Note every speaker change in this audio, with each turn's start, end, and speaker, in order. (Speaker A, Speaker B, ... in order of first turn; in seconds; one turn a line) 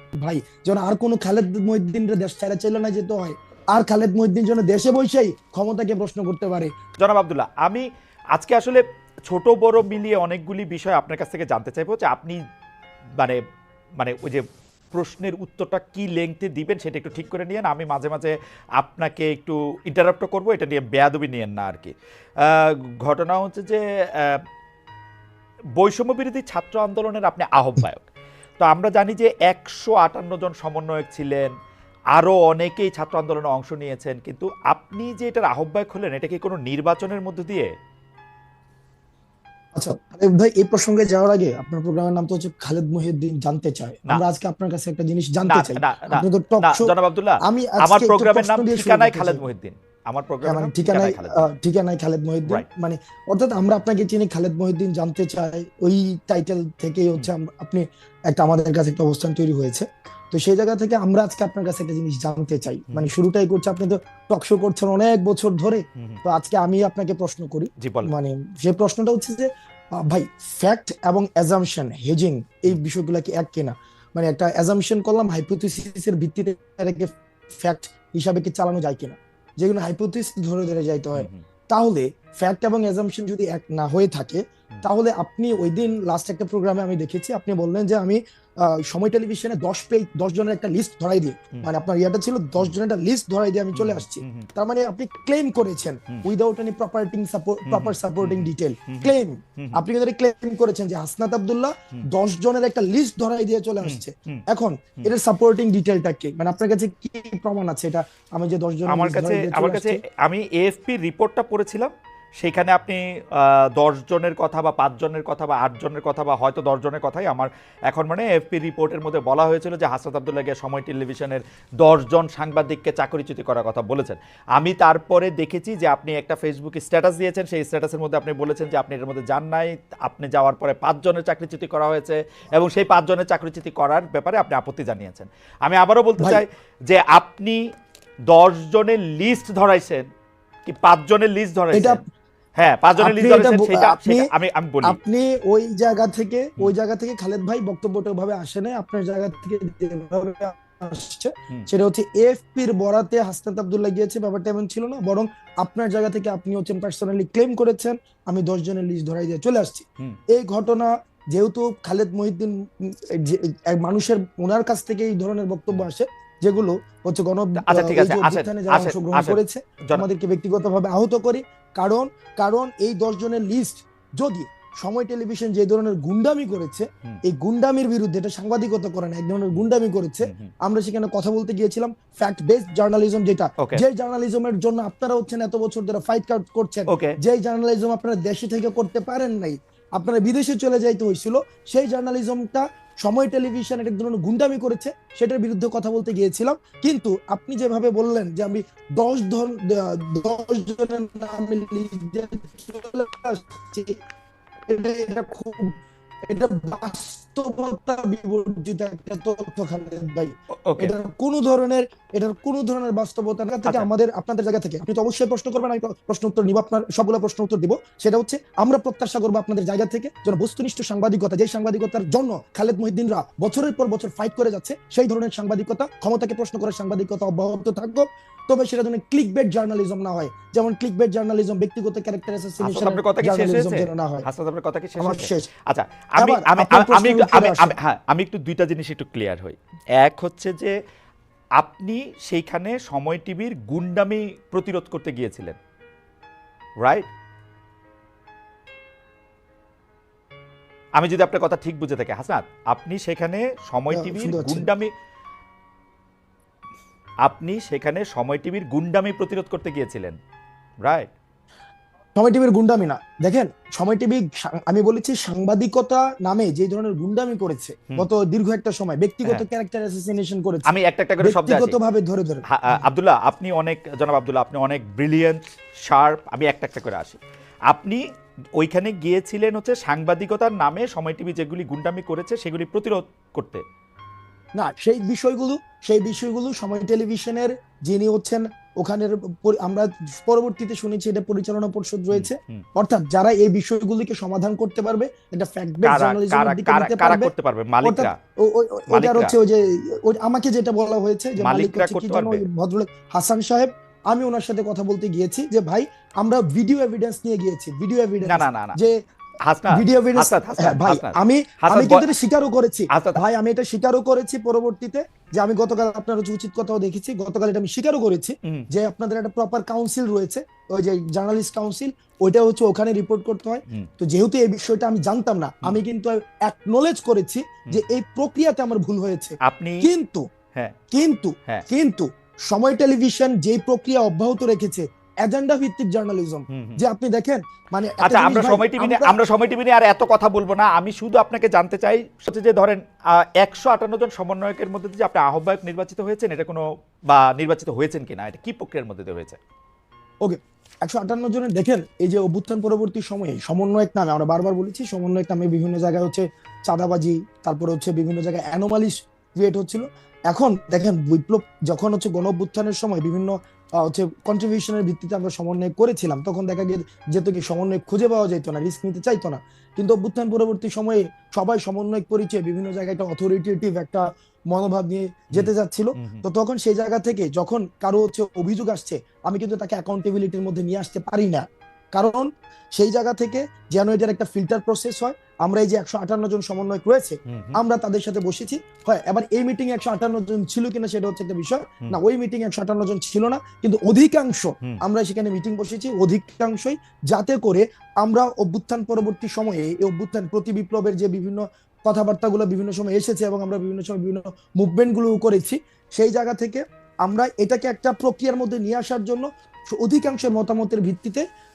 Speaker A: 0.2-6.7
Speaker B: 7.0-12.4
Speaker B: 14.0-24.4
Speaker B: 25.8-28.1
Speaker B: 28.6-31.5
Speaker B: 32.1-37.7
Speaker A: 39.8-46.9
Speaker B: 45.5-51.5
Speaker A: 47.4-49.4
Speaker A: 50.5-69.5
Speaker B: 67.8-68.1
Speaker A: 70.0-110.0
Speaker B: 81.2-81.4
Speaker B: 93.7-94.5
Speaker B: 97.7-99.8
Speaker B: 103.8-104.4
Speaker B: 108.9-137.6
Speaker B: 138.3-140.1
Speaker B: 140.7-142.0
Speaker A: 141.7-142.0
Speaker B: 142.6-145.0
Speaker A: 143.0-144.3
Speaker A: 144.8-203.9
Speaker B: 167.6-170.0
Speaker B: 180.2-180.5
Speaker B: 186.9-187.2
Speaker A: 204.7-205.7
Speaker A: 206.2-234.3
Speaker B: 210.7-210.9
Speaker B: 232.6-240.8
Speaker A: 235.0-235.5
Speaker A: 236.2-237.8
Speaker B: 241.6-245.6
Speaker B: 246.8-247.1
Speaker B: 251.0-254.9
Speaker A: 253.9-254.7
Speaker B: 257.2-260.2
Speaker A: 262.1-272.8
Speaker B: 270.7-271.8
Speaker B: 272.5-278.0
Speaker B: 278.6-283.6
Speaker A: 284.6-297.3
Speaker B: 292.1-292.6
Speaker B: 295.8-298.1
Speaker A: 297.8-308.9
Speaker B: 298.9-299.4
Speaker B: 301.4-302.4
Speaker B: 308.2-308.8
Speaker B: 309.4-312.1
Speaker A: 309.7-330.2
Speaker B: 312.9-313.2
Speaker B: 329.4-329.9
Speaker A: 330.9-339.2
Speaker B: 336.5-336.8
Speaker B: 338.0-349.4
Speaker A: 350.2-411.2
Speaker B: 375.3-376.2
Speaker B: 387.3-387.6